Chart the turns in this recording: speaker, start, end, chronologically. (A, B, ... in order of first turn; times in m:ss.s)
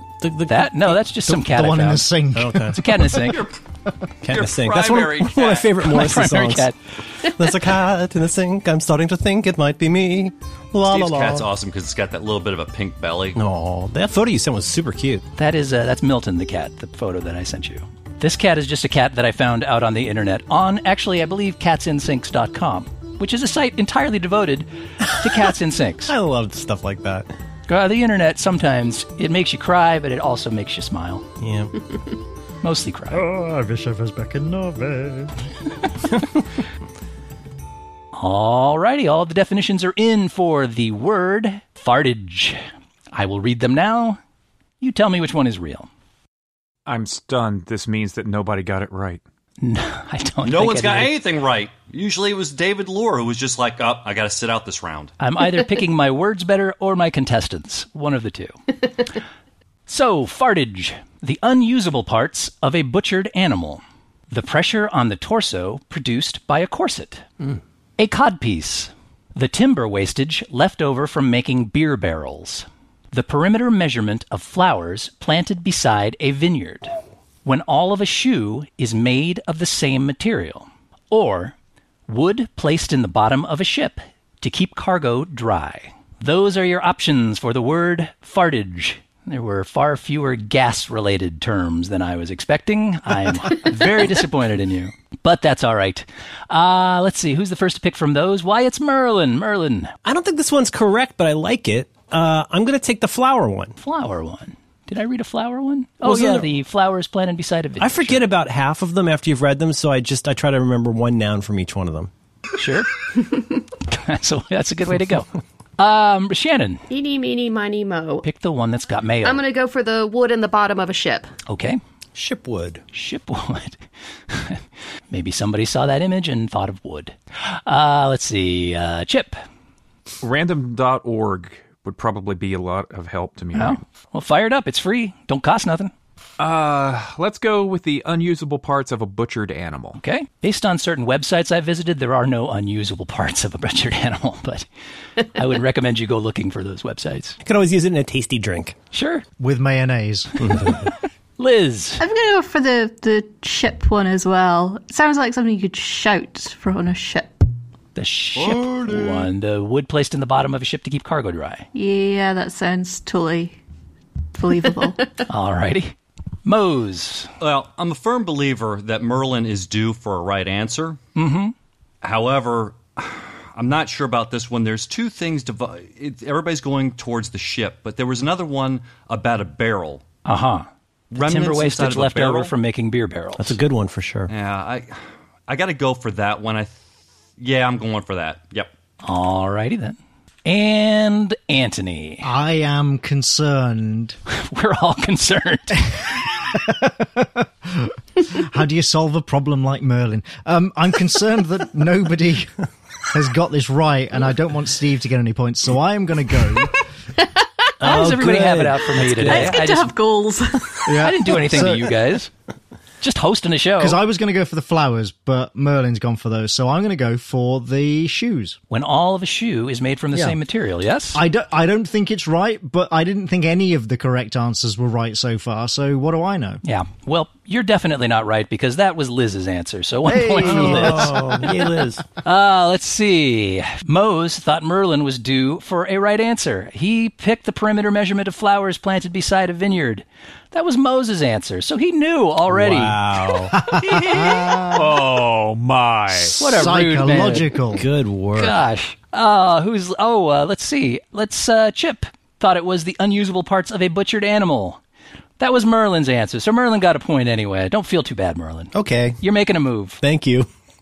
0:00.2-0:01.1 A
0:00.4-0:02.1 B
0:01.3-0:02.8 C
0:02.3-0:02.9 A
0:02.7-0:03.4 B
0:03.1-0:03.5 D
0:04.2-0:11.5 A
0:04.2-0:05.7 D
0:05.8-0:06.8 B
0:10.8-0:13.4 D
0:13.3-0:15.2 A
0:15.4-0:26.1 B
0:25.0-0:25.5 A
0:26.0-0:27.3 A
0:27.7-0:31.2 B
0:31.4-0:31.7 A
0:32.6-0:33.2 B
0:33.1-0:35.5 C
0:38.1-0:42.6 B
0:43.1-0:44.2 B
0:44.8-0:45.9 B
0:46.8-0:49.2 E
0:49.6-0:51.1 B
0:50.4-0:55.1 D
0:55.2-0:58.6 B
0:59.9-1:07.2 B
1:08.0-1:16.9 B
1:17.4-1:21.5 B
1:22.1-1:39.9 B
1:40.0-1:43.7 A
1:43.8-1:48.2 B
1:46.0-1:46.5 A
1:47.8-1:52.1 A
1:52.6-1:56.8 B
1:56.9-1:58.2 F
1:58.2-1:59.4 B
1:59.2-2:01.3 F
2:01.4-2:01.8 B
2:02.1-2:02.8 A
2:02.9-2:09.4 B
2:10.2-2:13.8 E
2:13.5-2:15.9 B
2:16.4-2:20.0 E
2:20.0-2:24.6 B
2:25.2-2:27.4 B
2:27.4-2:28.7 A
2:28.9-2:29.2 B
2:29.4-2:30.7 C
2:30.4-2:30.8 A
2:31.4-2:32.0 B
2:32.0-2:37.4 G
2:38.0-2:41.6 B
2:38.3-2:39.3 D
2:41.7-2:43.6 G
2:44.3-2:45.1 G
2:45.3-2:47.3 B
2:47.4-2:51.0 D
2:51.2-2:51.5 B
2:52.0-3:00.0 D
3:00.2-3:03.6 B
3:01.1-3:02.5 D
3:03.4-3:04.3 A
3:04.3-3:06.8 D
3:07.4-3:08.7 D
3:09.0-3:12.3 B
3:12.2-3:14.2 C
3:14.3-3:15.8 B
3:15.9-3:22.5 C
3:23.1-3:26.8 C
3:27.8-3:29.6 A
3:27.8-3:29.9 B
3:29.0-3:31.1 G
3:30.8-3:31.9 C
3:31.0-3:32.3 B
3:33.0-3:34.0 B
3:33.8-3:38.6 C
3:38.7-3:41.2 B
3:41.1-3:46.6 C
3:46.6-3:51.2 B
3:50.0-3:51.7 C
3:50.4-3:52.0 A
3:52.2-4:03.0 B
4:02.5-4:03.6 A
4:03.5-4:05.0 C
4:03.8-4:04.5 B
4:04.0-4:06.5 E
4:06.3-4:07.6 B
4:06.4-4:07.9 C
4:07.1-4:08.6 A
4:08.4-4:14.8 B
4:15.4-4:20.0 B
4:18.7-4:19.2 A
4:20.0-4:20.5 A